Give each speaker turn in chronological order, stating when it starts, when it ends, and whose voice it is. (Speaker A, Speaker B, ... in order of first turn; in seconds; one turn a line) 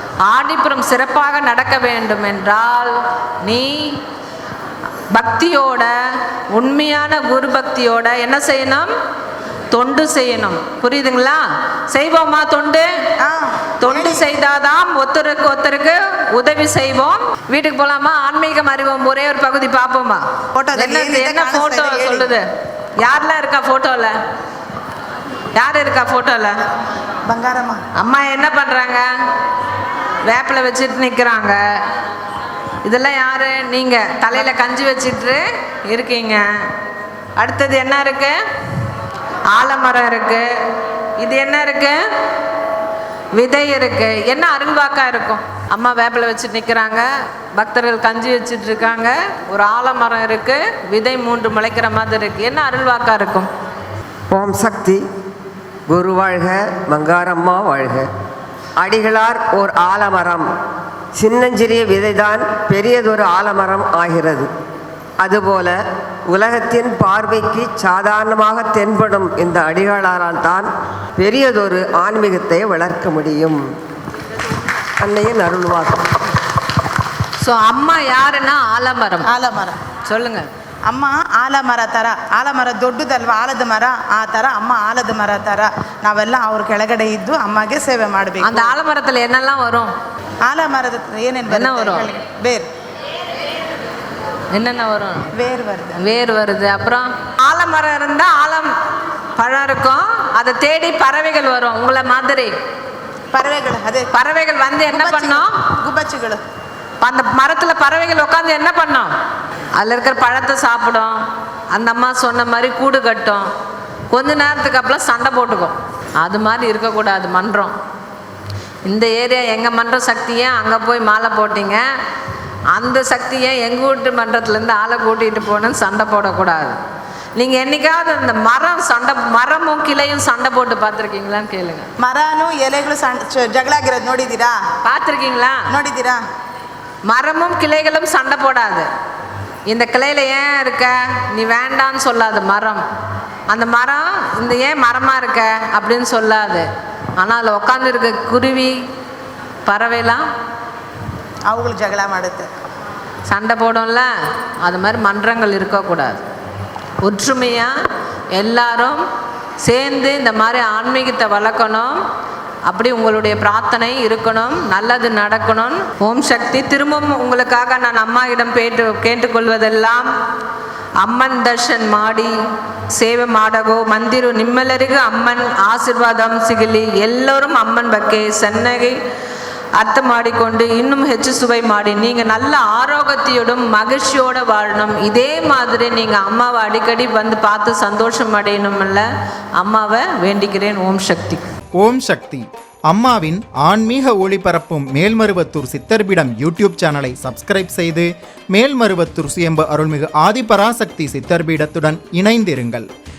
Speaker A: 0.2-4.0
Speaker A: 5.1-5.9
Speaker A: 6.5-8.9
Speaker A: 9.7-12.9
Speaker B: 13.2-14.2
Speaker A: 13.8-22.4
Speaker B: 20.5-22.3
Speaker A: 23.0-24.2
Speaker A: 25.5-26.6
Speaker B: 27.3-27.8
Speaker A: 27.9-29.1
Speaker A: 30.2-31.8
Speaker A: 32.8-36.7
Speaker A: 37.4-38.4
Speaker A: 39.5-40.5
Speaker A: 41.2-42.0
Speaker A: 43.3-53.5
Speaker C: 54.3-55.0
Speaker C: 55.9-58.1
Speaker C: 58.8-60.5
Speaker C: 61.2-64.5
Speaker C: 65.2-65.8
Speaker C: 66.3-73.6
Speaker C: 75.0-76.2
Speaker A: 77.4-79.3
Speaker B: 79.3-79.8
Speaker A: 80.1-80.5
Speaker B: 80.9-88.7
Speaker A: 88.4-89.9
Speaker B: 90.4-92.7
Speaker A: 91.5-92.1
Speaker A: 94.5-95.3
Speaker B: 95.3-96.0
Speaker A: 96.0-98.7
Speaker A: 99.4-102.5
Speaker B: 103.3-104.1
Speaker A: 104.1-105.6
Speaker B: 104.9-106.4
Speaker A: 107.0-109.1
Speaker A: 109.7-113.5
Speaker A: 114.1-117.7
Speaker A: 118.8-121.8
Speaker A: 122.7-126.8
Speaker A: 127.3-131.9
Speaker B: 132.0-134.6
Speaker A: 134.8-135.7
Speaker B: 135.7-136.2
Speaker A: 137.1-138.9
Speaker A: 139.7-142.8
Speaker A: 143.5-146.7
Speaker A: 147.2-148.8
Speaker A: 149.7-150.2
Speaker B: 151.5-152.5
Speaker A: 153.3-154.1
Speaker A: 154.6-156.2
Speaker A: 157.0-157.7
Speaker A: 158.3-159.0
Speaker A: 159.6-162.0
Speaker A: 162.7-170.1
Speaker A: 171.0-172.3
Speaker A: 172.9-179.0
Speaker A: 179.8-189.0
Speaker A: 189.6-191.5
Speaker D: 191.8-192.4
Speaker D: 192.9-202.8